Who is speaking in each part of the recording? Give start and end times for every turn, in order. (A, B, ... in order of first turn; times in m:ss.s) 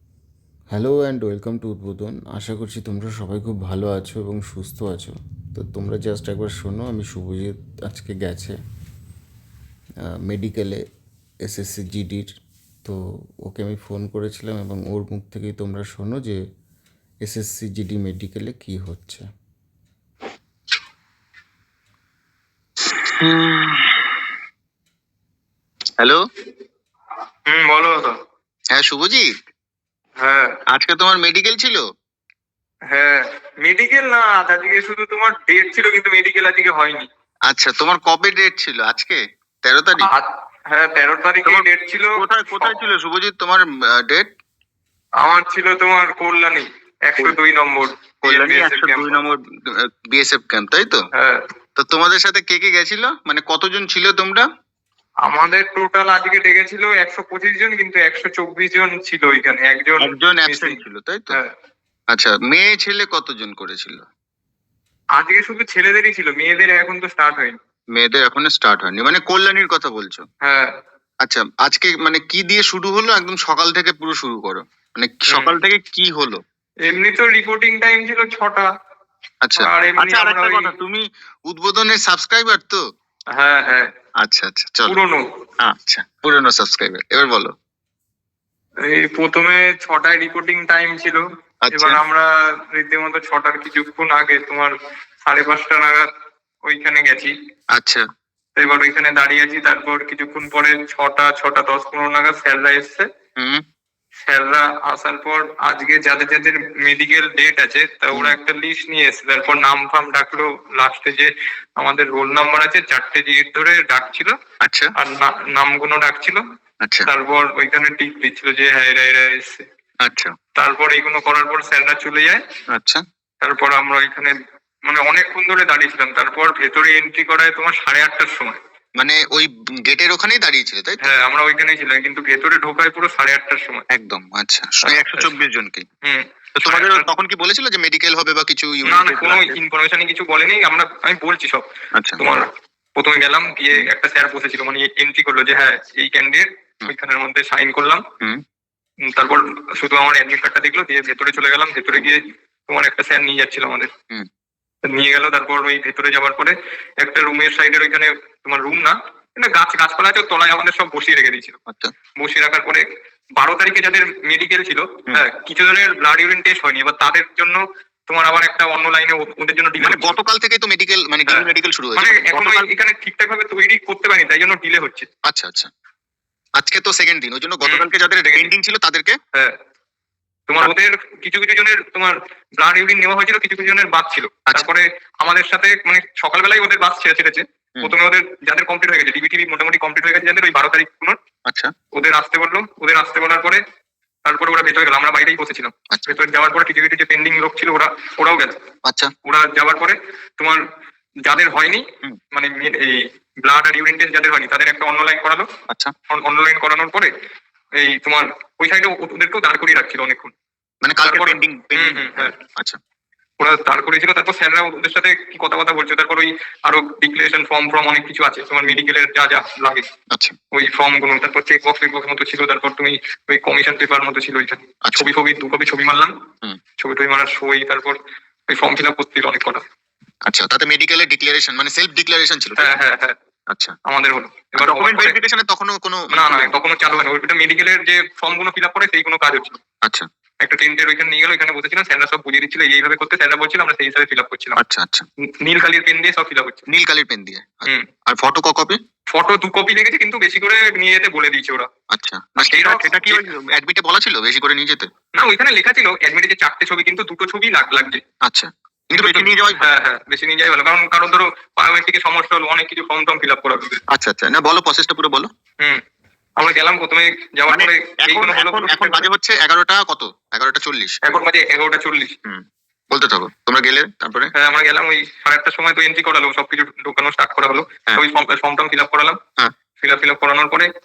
0:00.7-0:08.6 A
0:10.3-0:10.8 A
0:11.4-0:12.3 A
0:12.8-0:16.4 A
0:17.2-0:19.2 A
0:23.0-0:24.1 B
0:27.5-0:28.2 C
0:28.7-0:29.3 B
0:30.2-0:30.5 C
0:30.7-0:31.8 B
0:32.9-0:37.1 C
0:37.5-0:40.1 B
0:40.0-0:42.8 C
0:42.2-0:44.3 B
0:45.2-0:49.2 C
0:48.2-0:51.0 B
0:51.1-0:51.4 C
0:51.8-0:54.4 B
0:55.2-1:00.8 C
1:00.0-1:01.4 B
1:02.1-1:04.0 B
1:05.2-1:07.6 C
1:07.9-1:10.2 B
1:10.4-1:10.7 C
1:11.2-1:16.4 B
1:15.3-1:15.5 C
1:16.8-1:18.7 C
1:19.4-1:22.8 B
1:19.6-1:20.7 C
1:23.3-1:23.9 C
1:24.2-1:25.0 B
1:24.8-1:25.2 C
1:25.6-1:27.5 B
1:28.8-1:34.7 C
1:31.6-1:32.0 B
1:35.2-1:36.1 C
1:36.6-1:37.3 C
1:37.7-1:38.0 B
1:38.6-1:43.1 C
1:43.4-1:43.6 B
1:44.2-1:54.3 C
1:54.6-1:54.9 B
1:55.0-1:56.4 C
1:56.8-1:57.1 B
1:57.1-1:59.6 C
2:00.0-2:00.3 B
2:00.6-2:02.4 C
2:02.7-2:03.0 B
2:03.4-2:04.3 C
2:04.8-2:08.6 C
2:09.0-2:11.0 B
2:11.0-2:13.8 C
2:13.9-2:15.8 B
2:14.8-2:15.3 C
2:16.0-2:17.1 C
2:16.6-2:19.6 B
2:18.8-2:21.6 C
2:22.2-2:22.4 C
2:23.0-2:28.0 C
2:29.1-2:33.9 C
2:34.9-2:41.6 C
2:42.2-2:42.8 C
2:43.4-2:50.2 C
2:49.8-2:52.7 B
2:51.3-2:55.1 C
2:55.2-2:55.7 B
2:56.6-2:59.2 B
2:57.6-2:58.5 C
3:00.5-3:11.2 C
3:11.4-3:11.7 B
3:11.9-3:13.6 C
3:14.2-3:18.6 C
3:15.9-3:16.2 B
3:18.8-3:19.1 B
3:19.2-3:20.6 C
3:21.2-3:25.5 C
3:26.1-3:27.1 C
3:27.8-3:30.3 C
3:30.8-3:32.8 B
3:31.0-3:32.3 C
3:33.4-3:39.8 C
3:40.5-3:46.1 C
3:44.8-3:45.1 B
3:46.8-3:49.6 C
3:50.2-3:52.7 B
3:52.6-3:53.1 C
3:53.8-3:55.2 C
3:54.6-3:56.5 B
3:56.1-3:59.6 C
4:00.4-4:04.6 C
4:04.6-4:05.0 B
4:05.4-4:06.6 C
4:06.7-4:08.8 B
4:09.1-4:11.7 C
4:11.9-4:14.9 B
4:12.4-4:13.2 C
4:15.1-4:18.0 C
4:18.2-4:19.7 B
4:18.9-4:23.8 C
4:23.9-4:25.3 B
4:26.4-4:29.1 C
4:27.5-4:31.0 B
4:31.0-4:32.1 C
4:32.2-4:34.3 B
4:34.4-4:39.2 C
4:39.8-4:40.7 C